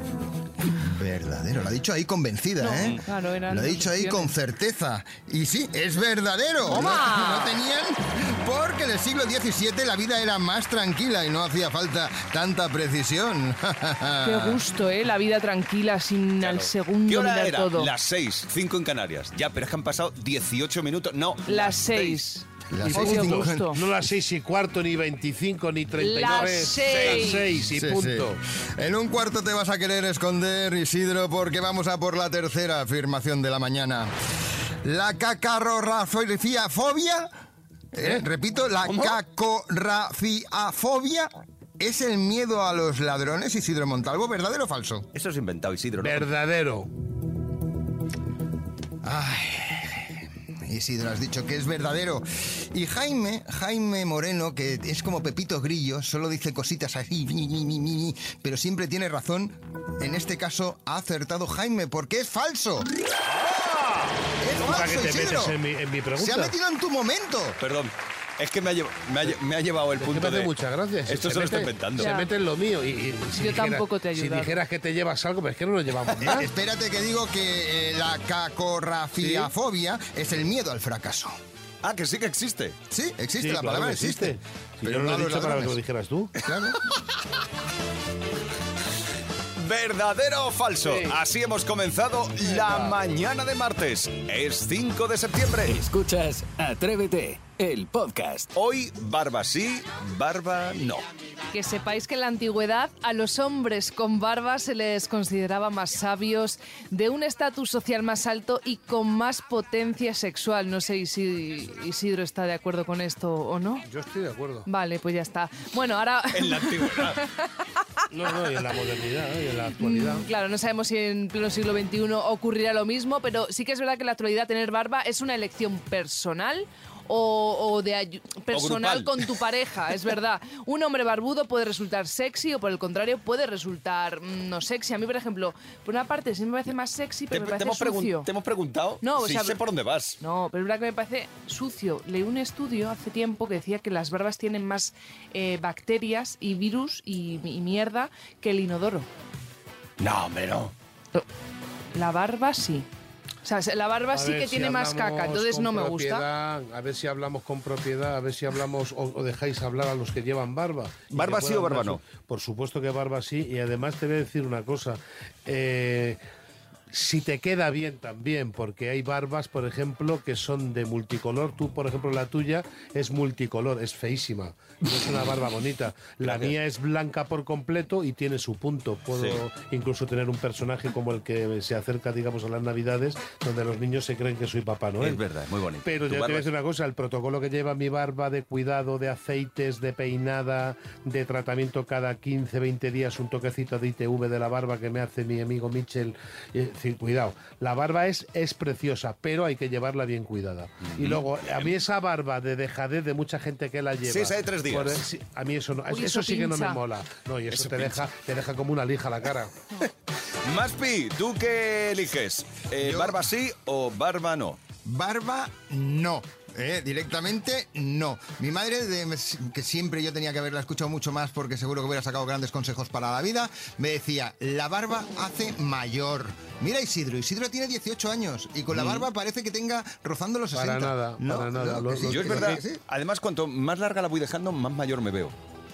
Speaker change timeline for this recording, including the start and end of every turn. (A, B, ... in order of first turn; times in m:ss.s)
0:00.7-0:14.6 A
0:02.6-0:04.3 B
0:06.6-0:07.6 B
0:14.2-0:17.9 B
0:16.4-0:22.2 C
0:21.4-0:23.8 B
0:22.7-0:23.7 A
0:22.8-0:28.4 D
0:26.0-0:27.5 B
0:26.2-0:27.4 C
0:27.7-0:34.1 A
0:34.8-0:37.3 A
0:37.9-0:45.1 A
0:38.9-0:39.1 C
0:45.1-0:46.3 C
0:46.0-0:46.9 D
0:49.0-1:02.9 A
1:03.2-1:04.1 C
1:04.4-1:05.6 A
1:04.6-1:06.5 D
1:06.2-1:07.6 A
1:07.6-1:10.5 C
1:10.0-1:16.5 D
1:11.1-1:12.1 C
1:12.0-1:12.3 B
1:13.3-1:14.6 B
1:16.2-1:21.3 A
1:19.2-1:19.5 D
1:21.8-1:22.8 C
1:22.9-1:25.8 A
1:23.4-1:26.3 D
1:26.4-1:26.8 A
1:29.6-1:35.8 C
1:30.8-1:31.2 D
1:32.4-1:33.0 D
1:35.7-1:38.5 E
1:38.6-1:41.0 C
1:41.5-1:53.8 B
1:53.8-1:54.7 D
1:54.6-1:57.5 B
1:56.3-1:57.2 C
1:58.1-2:00.2 D
1:59.8-2:18.3 B
2:08.5-2:09.3 C
2:17.3-2:20.2 C
2:19.0-2:19.6 B
2:20.2-2:29.1 B
2:30.0-2:30.7 C
2:31.9-2:32.9 B
2:33.4-2:36.2 B
2:34.1-2:46.2 D
2:41.1-2:42.0 C
2:46.9-3:05.2 D
2:55.0-2:55.4 C
2:56.2-2:56.5 C
2:59.1-2:59.4 C
3:05.0-3:06.5 C
3:05.8-3:29.5 D
3:20.8-3:21.7 C
3:24.0-3:25.0 C
3:25.9-3:26.8 B
3:27.5-3:28.0 C
3:30.4-3:34.6 C
3:32.8-3:33.2 A
3:34.8-3:52.8 A
3:48.7-3:49.0 C
3:50.5-3:52.6 D
3:52.0-3:55.3 C